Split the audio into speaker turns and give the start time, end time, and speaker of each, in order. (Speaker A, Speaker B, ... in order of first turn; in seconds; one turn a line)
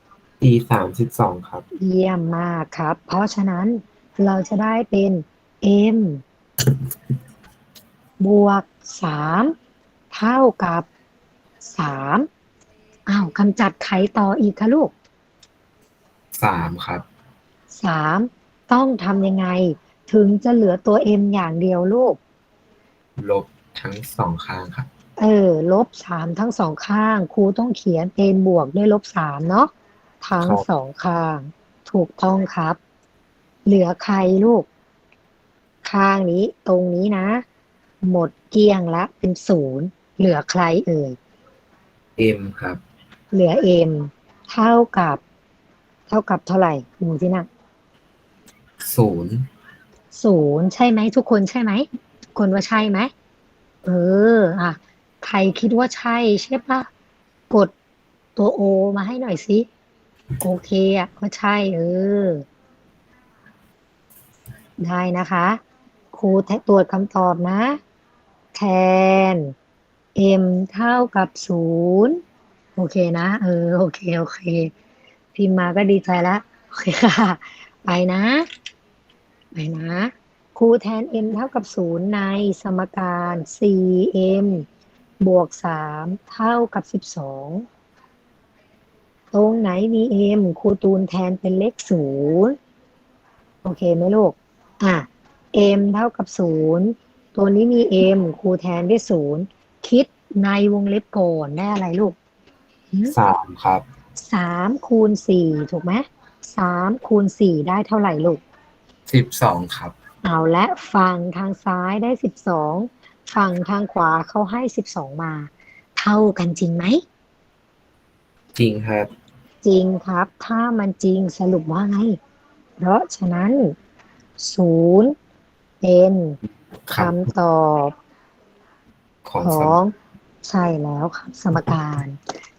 Speaker A: 0.4-1.6
Speaker B: 1.8-6.2
Speaker B: 8.2-9.5
Speaker B: 10.1-10.9
Speaker B: 11.7-12.3
Speaker B: 13.1-14.9
Speaker A: 16.4-17.0
Speaker B: 17.7-22.2
Speaker A: 23.2-24.9
Speaker B: 25.2-29.7
Speaker B: 30.2-32.8
Speaker B: 33.6-34.7
Speaker B: 35.8-37.4
Speaker B: 38.0-41.2
Speaker A: 42.2-42.8
Speaker B: 43.3-45.2
Speaker B: 46.1-47.5
Speaker A: 48.8-49.5
Speaker B: 50.1-53.1
Speaker B: 53.8-56.9
Speaker B: 58.4-59.7
Speaker B: 60.4-62.5
Speaker B: 64.8-65.6
Speaker B: 66.1-67.8
Speaker B: 68.5-69.5
Speaker B: 70.1-72.2
Speaker B: 72.8-74.7
Speaker B: 75.3-78.5
Speaker B: 79.5-84.7
Speaker B: 85.2-87.7
Speaker B: 89.3-92.5
Speaker B: 93.6-102.2
Speaker A: 103.1-103.8
Speaker B: 104.2-108.4
Speaker A: 109.1-110.0
Speaker B: 110.2-117.0
Speaker A: 118.5-119.1
Speaker B: 119.6-122.2
Speaker B: 122.8-123.7
Speaker B: 124.4-125.1
Speaker B: 125.8-126.4
Speaker A: 126.9-127.3
Speaker B: 126.9-127.9
Speaker A: 129.2-129.8
Speaker B: 129.4-129.9
Speaker B: 130.4-132.2